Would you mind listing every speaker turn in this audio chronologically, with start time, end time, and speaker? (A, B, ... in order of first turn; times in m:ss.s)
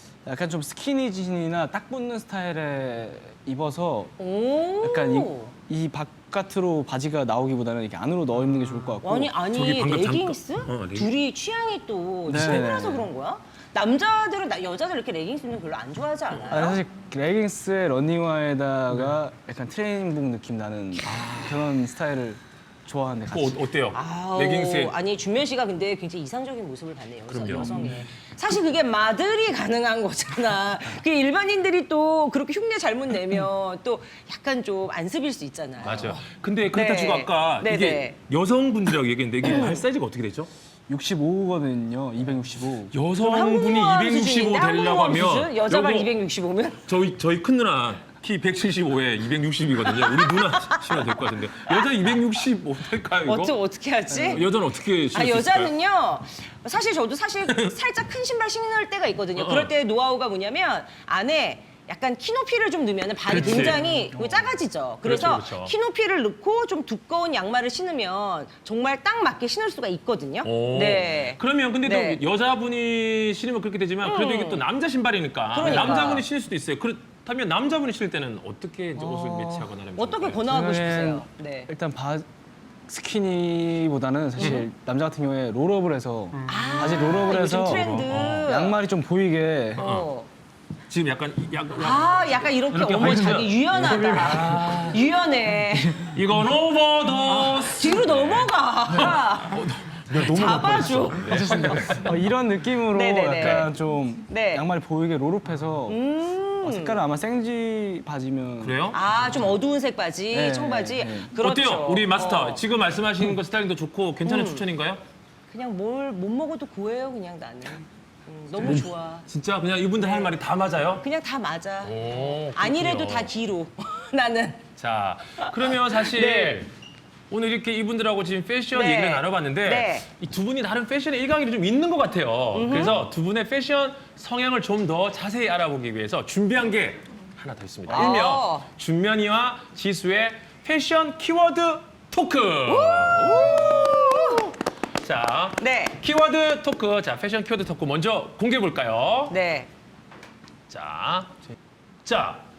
0:00.2-0:04.2 A
0:04.2-0:05.5 B
0:04.8-0:09.3 A
0:09.0-0:16.8 B
0:09.5-0:11.1 C
0:12.3-0:13.1 A
0:16.5-0:23.6 A
0:21.1-0:21.6 C
0:23.3-0:24.9 C
0:23.9-0:36.2 B
0:27.3-0:28.0 C
0:27.6-0:28.0 A
0:35.8-0:40.5 C
0:36.7-0:38.2 B
0:39.4-0:39.8 A
0:39.4-0:39.8 B
0:40.9-0:42.9 A
0:42.9-0:46.1 C
0:43.2-0:46.8 B
0:46.9-0:53.5 C
0:49.9-0:50.9 B
0:53.2-0:54.5 B
0:54.1-0:55.7 C
0:55.1-1:12.2 B
0:59.4-0:59.7 C
1:03.2-1:03.9 C
1:03.6-1:04.5 A
1:05.0-1:05.7 C
1:10.4-1:20.4 C
1:14.0-1:14.6 B
1:15.5-1:16.3 B
1:15.6-1:16.2 A
1:19.0-1:19.8 A
1:20.0-1:21.7 B
1:20.5-1:22.3 A
1:22.9-1:29.8 A
1:24.4-1:24.6 B
1:26.5-1:28.8 B
1:26.5-1:28.5 C
1:29.8-1:30.3 B
1:29.8-1:30.1 C
1:30.9-1:35.0 C
1:31.8-1:36.1 B
1:33.9-1:34.7 A
1:35.8-1:36.1 A
1:36.1-1:42.1 C
1:37.3-1:41.3 B
1:41.2-1:46.0 A
1:42.9-1:43.7 B
1:44.3-1:44.6 B
1:45.9-1:47.0 B
1:46.6-1:48.8 A
1:48.6-1:49.0 C
1:48.9-1:52.6 B
1:50.3-1:51.3 A
1:51.4-1:55.0 C
1:54.2-1:54.7 B
1:55.5-1:59.3 B
1:58.5-2:01.0 C
2:00.0-2:00.4 B
2:01.0-2:04.6 B
2:01.8-2:03.3 C
2:04.8-2:06.7 C
2:05.4-2:06.7 B
2:07.3-2:24.3 C
2:08.7-2:10.1 B
2:12.5-2:13.0 B
2:17.9-2:18.7 B
2:22.7-2:24.5 B
2:25.0-2:29.3 C
2:25.6-2:26.0 B
2:29.3-2:29.7 B
2:30.7-2:31.4 C
2:32.0-2:32.4 C